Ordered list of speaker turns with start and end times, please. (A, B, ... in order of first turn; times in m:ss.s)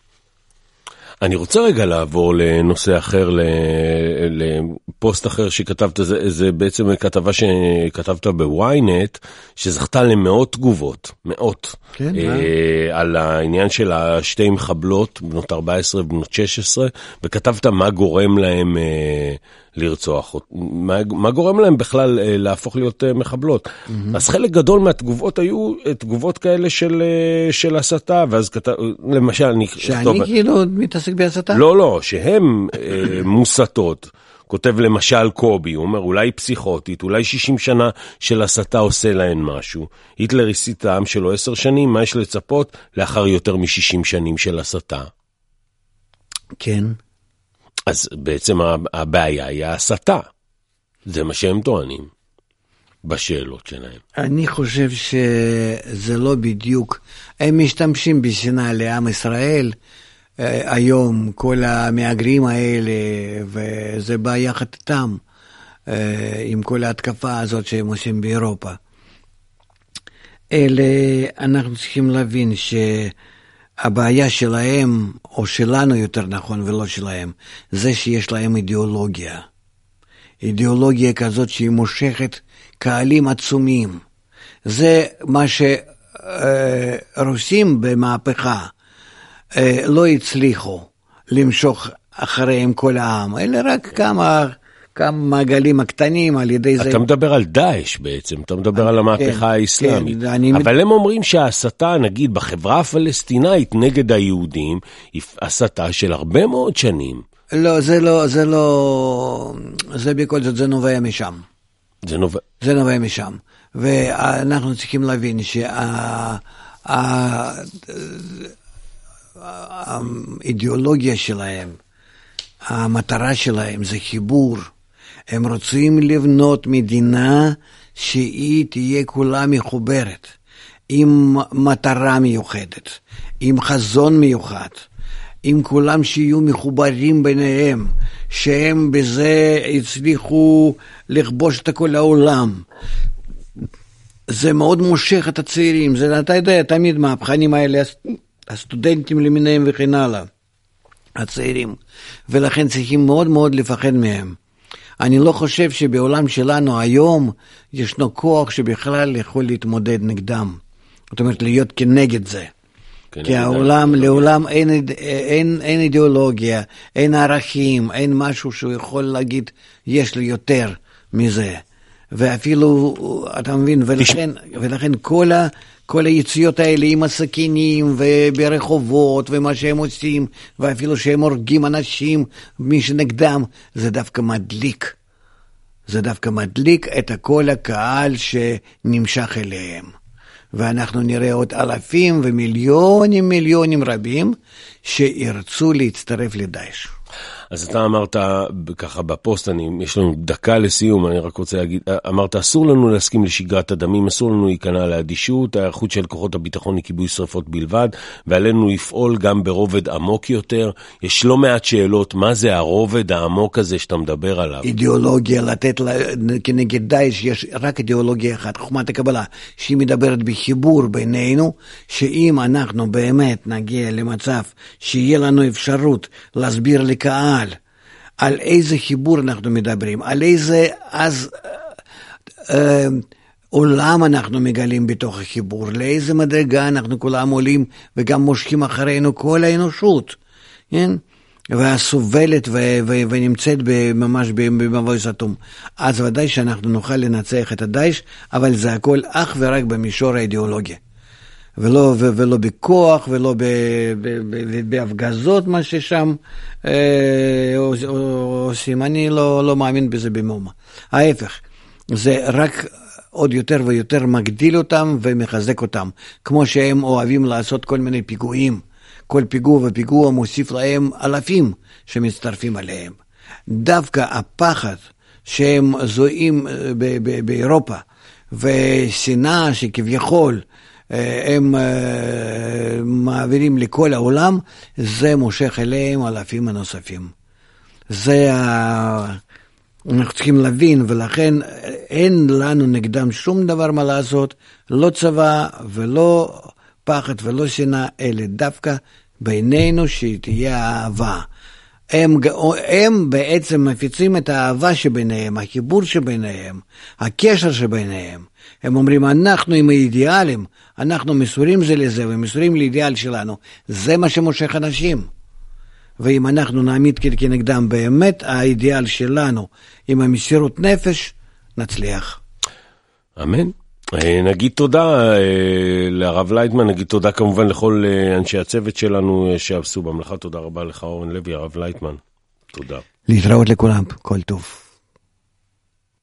0:01.2-0:30.3 A
0:12.0-0:12.5 B
0:23.9-0:24.2 B
0:29.8-0:31.6 B
0:31.5-0:45.1 A
0:46.5-0:47.0 B
0:47.9-0:50.2 A
0:51.0-0:52.1 A
0:53.0-0:54.0 A
0:54.2-0:59.7 B
1:00.4-1:05.2 B
1:05.9-1:08.8 B
1:10.5-1:13.1 B
1:13.8-1:19.4 B
1:20.4-1:24.0 B
1:24.6-1:28.7 B
1:29.5-1:37.0 B
1:36.8-1:47.2 A
1:38.8-1:40.7 B
1:47.5-1:51.4 B
1:52.0-1:52.4 A
1:52.6-1:58.5 B
1:59.4-2:01.8 B
2:02.7-2:04.7 B
2:05.3-2:10.3 B
2:10.9-2:14.9 B
2:15.4-2:22.6 B
2:24.3-2:30.3 B
2:31.2-2:34.4 B
2:35.0-2:40.6 B
2:41.1-2:42.5 B
2:43.1-2:44.3 A
2:43.2-3:05.0 B
3:05.9-3:09.9 B
3:10.5-3:16.9 B
3:17.5-3:34.7 A
3:34.6-3:47.5 B
3:48.2-3:51.7 B
3:52.5-4:00.2 B
4:00.7-4:10.8 B
4:11.6-4:33.0 B
4:33.5-4:47.1 B
4:47.9-4:49.2 B
4:49.9-5:01.3 B
5:01.9-5:15.1 B
5:16.0-5:22.2 B
5:23.2-5:32.0 A
5:32.5-5:32.8 A
5:33.1-5:34.6 B